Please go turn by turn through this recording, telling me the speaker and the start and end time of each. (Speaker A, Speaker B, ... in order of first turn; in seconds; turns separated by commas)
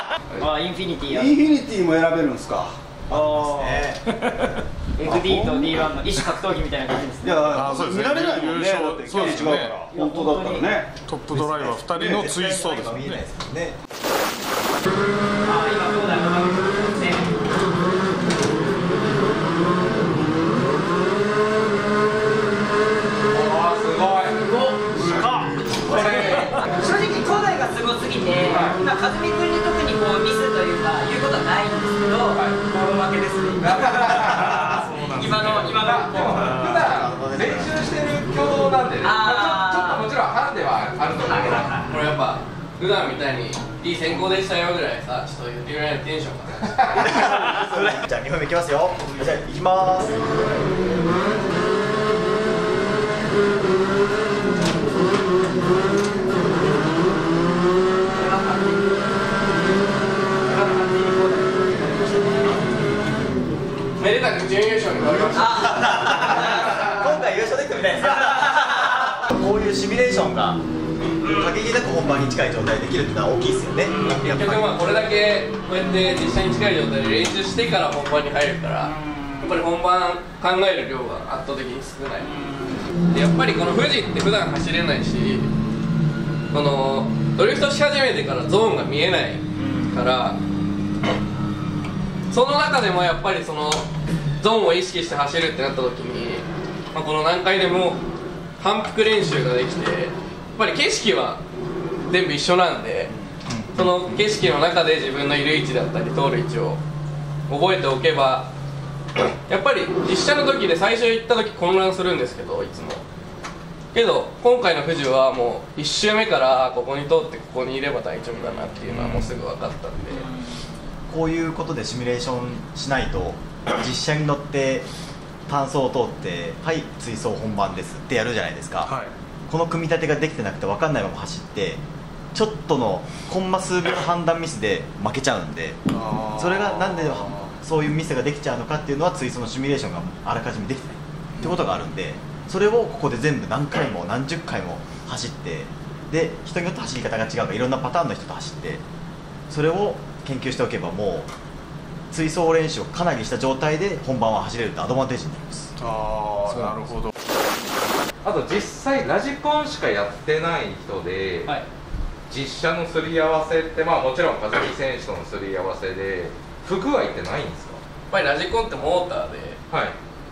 Speaker A: 0.4-1.4, Speaker B: 1.1-2.8, Speaker C: 3.1-4.2, Speaker A: 3.1-4.2, Speaker A: 5.0-7.4, Speaker B: 5.0-5.8, Speaker B: 7.2-11.0, Speaker D: 7.5-9.9, Speaker A: 9.9-10.7, Speaker D: 11.0-13.2, Speaker C: 11.3-13.8, Speaker A: 15.4-17.4, Speaker E: 23.3-26.6, Speaker A: 24.4-25.0, Speaker D: 25.0-26.0, Speaker A: 25.8-36.6, Speaker E: 28.4-28.8, Speaker E: 33.6-34.8, Speaker D: 34.3-35.8, Speaker E: 35.7-41.8, Speaker C: 36.5-37.8, Speaker A: 39.0-40.1, Speaker A: 41.2-41.9, Speaker F: 41.9-47.1, Speaker E: 46.8-47.1, Speaker C: 47.0-50.2, Speaker A: 58.1-58.9, Speaker A: 60.4-61.7, Speaker F: 64.0-66.2, Speaker A: 65.3-67.0, Speaker C: 65.8-70.6, Speaker A: 68.0-69.2, Speaker C: 71.2-74.8, Speaker A: 73.9-74.2, Speaker F: 74.1-82.3, Speaker A: 78.8-79.7, Speaker A: 82.2-82.9, Speaker F: 83.1-85.5, Speaker F: 86.5-90.4, Speaker A: 89.6-90.0, Speaker F: 92.3-93.8, Speaker F: 94.4-98.0, Speaker F: 98.6-101.4, Speaker F: 102.1-103.1, Speaker D: 103.5-104.2, Speaker F: 103.7-106.8, Speaker F: 107.5-108.5, Speaker F: 109.5-113.0, Speaker F: 113.9-120.3, Speaker D: 118.9-119.4, Speaker A: 120.1-120.7, Speaker C: 121.1-124.8, Speaker C: 125.5-128.9, Speaker D: 128.8-129.1, Speaker C: 129.5-131.8, Speaker C: 132.3-135.8, Speaker D: 135.9-137.5, Speaker C: 136.3-148.8, Speaker C: 149.5-151.3, Speaker C: 152.1-155.7, Speaker D: 155.8-157.1, Speaker E: 158.2-161.5, Speaker E: 162.3-167.8, Speaker F: 168.1-169.6